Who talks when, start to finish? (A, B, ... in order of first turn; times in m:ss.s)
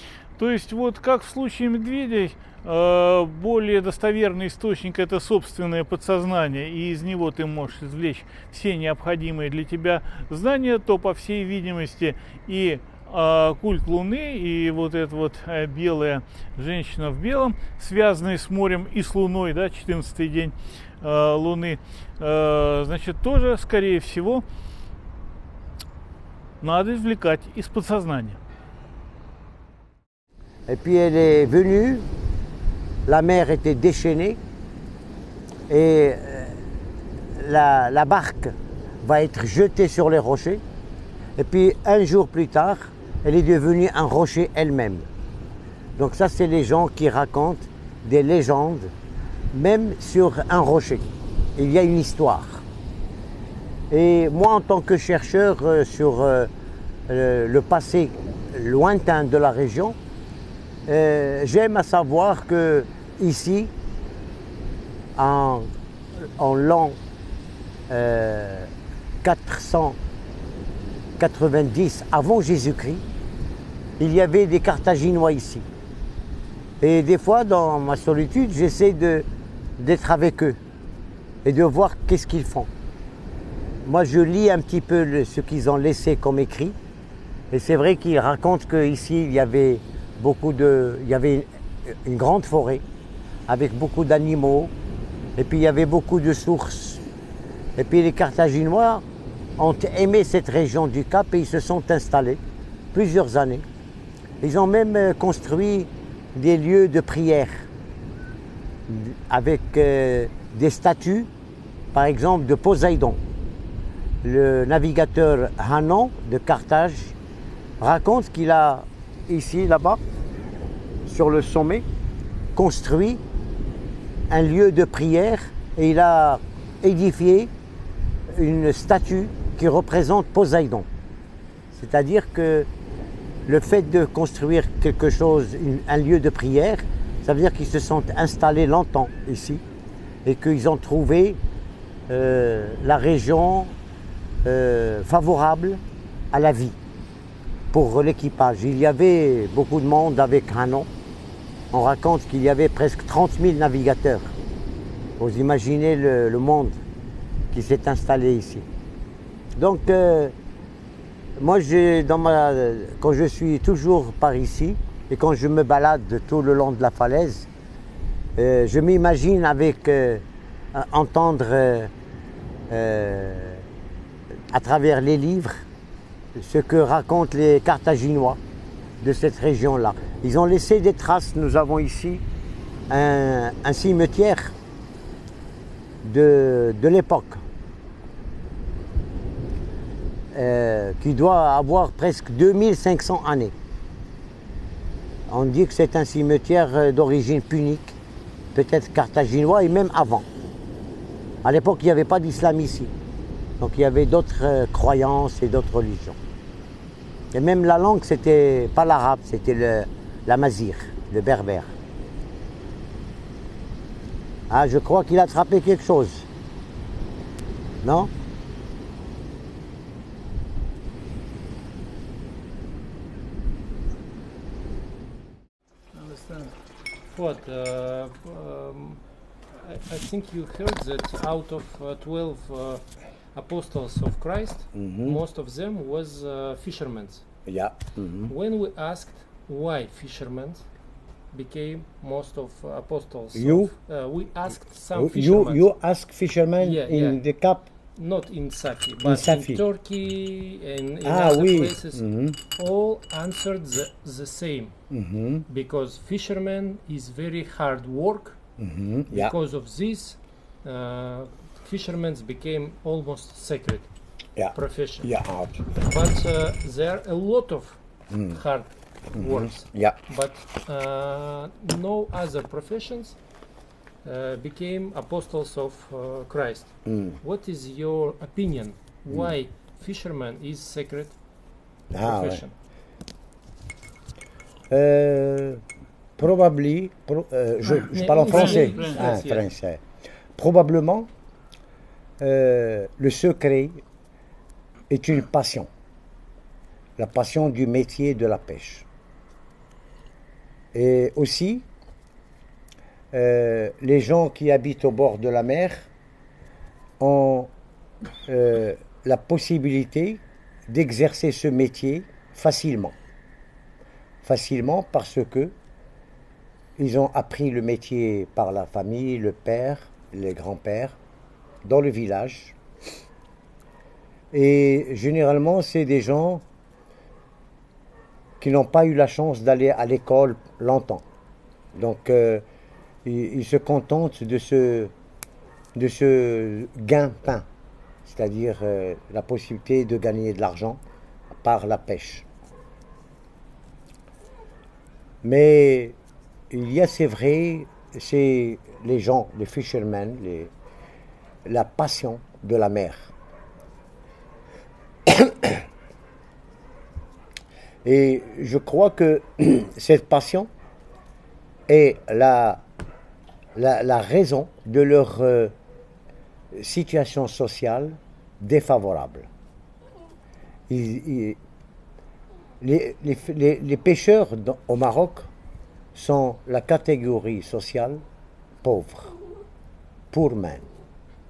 0:00.4-0:24.4 A
0:26.6-0:28.4 A
0:30.7-0:32.1 B
0:33.1-0:34.4 B
0:35.7-0:36.6 B
0:37.4-0:40.6 B
0:41.4-0:45.1 B
0:46.0-0:48.9 B
0:49.5-0:52.6 B
0:53.9-0:56.5 B
0:57.1-1:00.0 B
1:00.9-1:03.7 B
1:05.2-1:07.0 B
1:07.9-1:08.7 B
1:09.2-1:10.0 B
1:11.2-1:13.0 B
1:14.0-1:15.7 B
1:16.8-1:19.3 B
1:19.8-1:20.6 B
1:21.4-1:22.7 B
1:23.8-1:26.8 B
1:27.5-1:32.8 B
1:33.5-1:34.7 B
1:35.4-1:37.0 B
1:37.8-1:39.0 B
1:39.6-1:42.4 B
1:42.9-1:43.6 B
1:44.4-1:47.7 B
1:48.9-1:51.3 B
1:51.9-1:53.2 B
1:54.2-1:57.1 B
1:57.8-2:00.0 B
2:01.0-2:01.8 B
2:02.5-2:03.2 B
2:04.3-2:07.5 B
2:08.3-2:10.9 B
2:11.7-2:12.7 B
2:13.5-2:19.6 B
2:20.2-2:21.4 B
2:22.1-2:23.7 B
2:24.4-2:26.8 B
2:27.7-2:30.9 B
2:31.7-2:34.3 B
2:35.2-2:36.8 B
2:37.5-2:38.7 B
2:39.6-2:40.3 B
2:41.4-2:47.5 B
2:48.4-2:51.9 B
2:52.7-2:53.6 B
2:54.5-2:55.6 B
2:56.3-2:58.4 B
2:59.0-3:02.2 B
3:02.9-3:04.5 B
3:06.0-3:07.4 B
3:10.3-3:13.5 B
3:15.3-3:18.0 B
3:18.5-3:20.2 B
3:21.4-3:22.9 B
3:23.6-3:26.2 B
3:27.3-3:31.7 B
3:34.5-3:36.3 B
3:37.8-3:38.1 B
3:45.9-3:46.5 A
3:47.1-3:49.0 C
3:49.6-3:57.2 C
3:54.7-3:55.2 B
3:57.4-3:58.3 B
3:58.3-4:00.6 C
4:01.3-4:05.7 C
4:03.3-4:03.7 B
4:04.9-4:07.7 B
4:06.6-4:07.2 C
4:08.0-4:14.8 C
4:09.0-4:09.6 B
4:11.0-4:12.4 B
4:14.9-4:15.4 B
4:15.5-4:18.4 C
4:18.6-4:19.3 B
4:19.1-4:23.9 C
4:24.4-4:25.6 B
4:24.5-4:25.1 C
4:25.7-4:27.8 C
4:28.1-4:28.4 B
4:28.3-4:33.2 C
4:29.1-4:30.0 B
4:34.0-4:41.2 C
4:36.8-4:37.2 B
4:41.9-4:42.4 B
4:42.0-4:42.5 C
4:44.7-4:45.6 B
4:46.2-4:49.8 B
4:47.6-4:49.5 C
4:48.3-4:49.0 A
4:50.4-4:51.1 B
4:52.2-4:53.8 B
4:54.9-4:55.7 B
4:57.0-4:58.8 B
5:00.7-5:01.7 B
5:03.1-5:05.9 B
5:07.0-5:07.5 B
5:08.3-5:13.0 B
5:14.2-5:15.5 B
5:16.8-5:21.0 B
5:21.6-5:22.6 B
5:24.3-5:26.4 B
5:28.4-5:31.0 B
5:31.7-5:32.4 B
5:33.0-5:34.9 B
5:35.7-5:37.4 B
5:38.0-5:40.8 B
5:41.4-5:42.2 B
5:45.2-5:46.0 B
5:46.5-5:50.5 B
5:51.4-5:53.1 B
5:55.0-5:55.6 B
5:57.8-6:00.5 B
6:01.7-6:02.6 B
6:03.5-6:05.5 B
6:06.5-6:09.3 B
6:10.7-6:11.4 B
6:12.6-6:15.3 B
6:15.9-6:18.0 B
6:18.6-6:19.1 B
6:20.1-6:20.7 B